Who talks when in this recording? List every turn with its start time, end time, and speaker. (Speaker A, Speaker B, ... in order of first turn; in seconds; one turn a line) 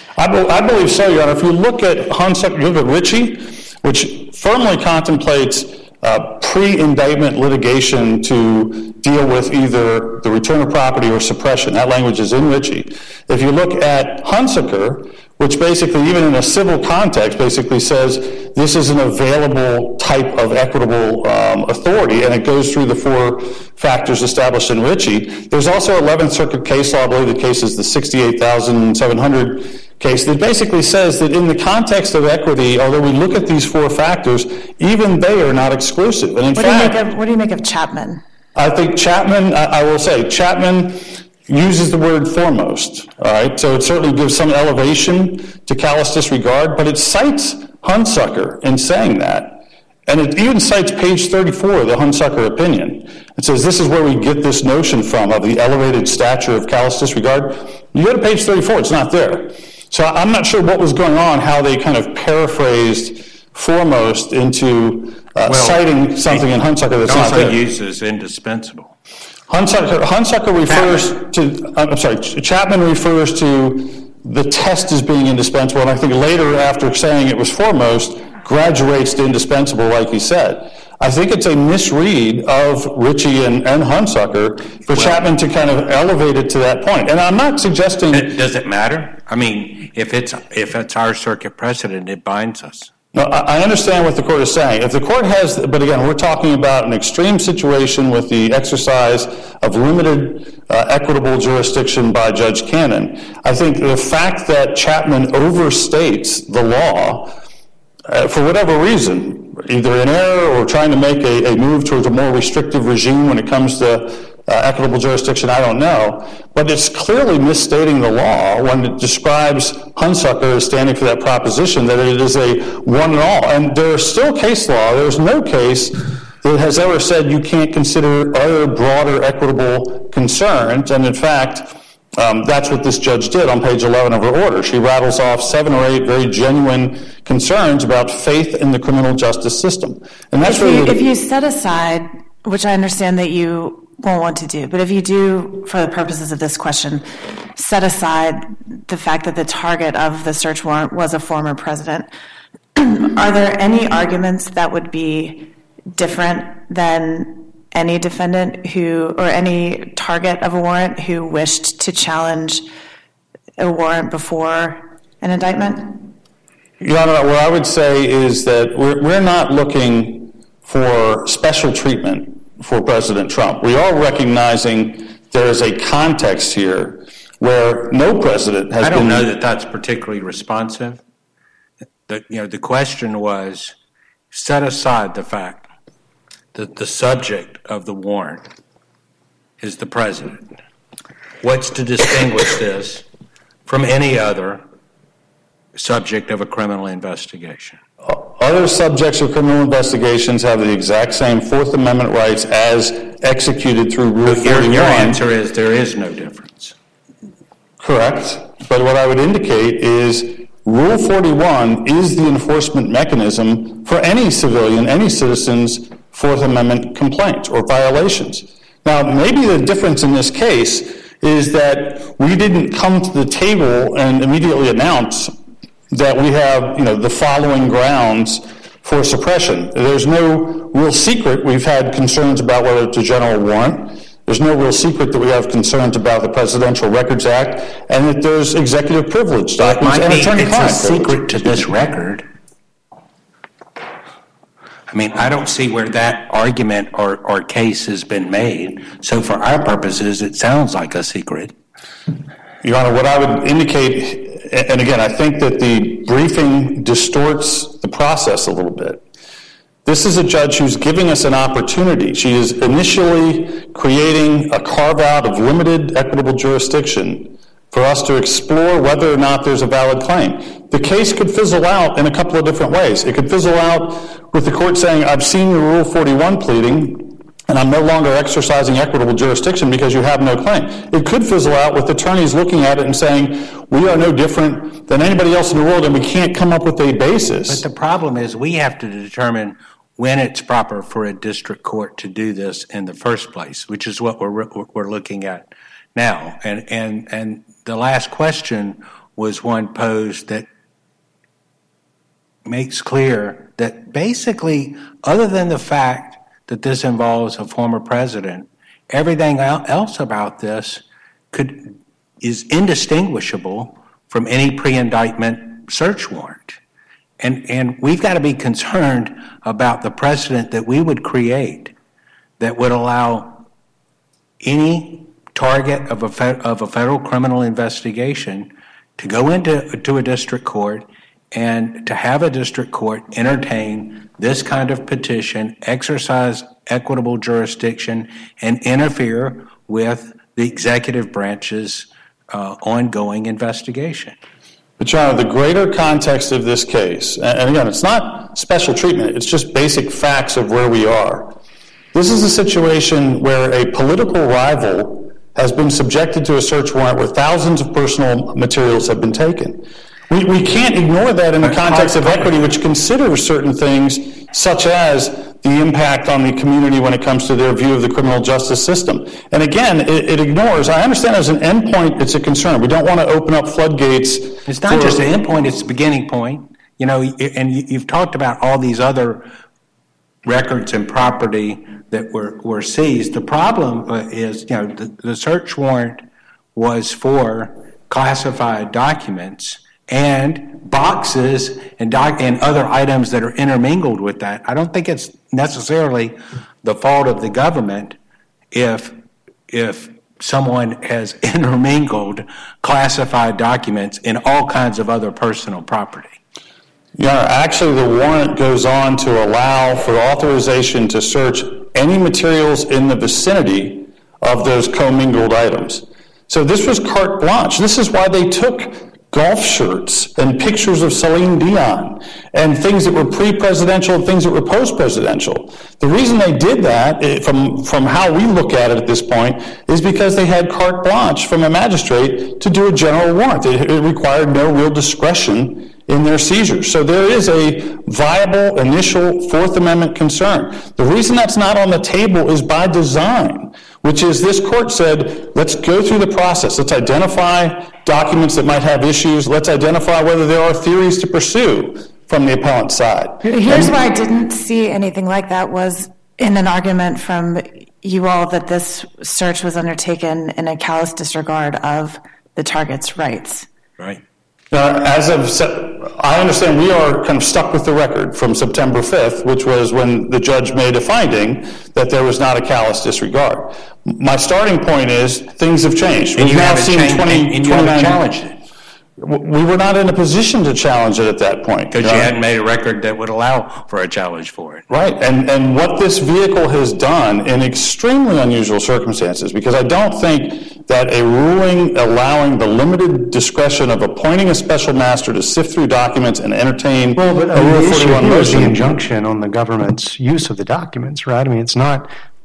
Speaker A: 0.2-37.0
Speaker B: 36.5-38.2
Speaker A: 38.5-67.6
Speaker C: 65.5-66.5
Speaker C: 67.0-69.0
Speaker A: 69.5-88.4
Speaker C: 70.7-71.1
Speaker C: 84.9-85.2
Speaker C: 88.1-92.9
Speaker A: 93.1-107.3
Speaker A: 108.1-141.0
Speaker B: 140.4-152.1
Speaker B: 152.8-162.7
Speaker B: 163.6-166.1
Speaker A: 166.8-179.3
Speaker C: 178.8-181.0
Speaker C: 182.1-183.8
Speaker C: 184.3-185.7
Speaker C: 186.5-188.5
Speaker C: 189.6-190.5
Speaker C: 191.4-193.1
Speaker C: 193.7-194.6
Speaker C: 195.8-197.8
Speaker A: 198.1-205.2
Speaker C: 204.2-206.8
Speaker A: 207.8-225.3
Speaker A: 225.9-241.2
Speaker C: 239.6-242.3
Speaker C: 244.9-251.6
Speaker A: 252.6-259.0
Speaker A: 259.9-287.6
Speaker C: 287.5-300.5
Speaker C: 302.4-316.6
Speaker C: 317.2-321.7
Speaker C: 322.4-323.4
Speaker C: 324.4-344.2
Speaker A: 344.8-351.4
Speaker A: 351.9-375.0
Speaker C: 361.4-362.5
Speaker C: 374.5-379.3
Speaker C: 380.2-386.0
Speaker C: 386.6-398.0
Speaker C: 398.5-399.0
Speaker C: 399.5-406.2
Speaker A: 407.0-453.7
Speaker B: 453.2-463.5
Speaker A: 464.5-478.0
Speaker C: 476.2-478.4
Speaker A: 479.0-482.1
Speaker C: 481.7-484.6
Speaker A: 484.7-498.8
Speaker D: 497.0-501.9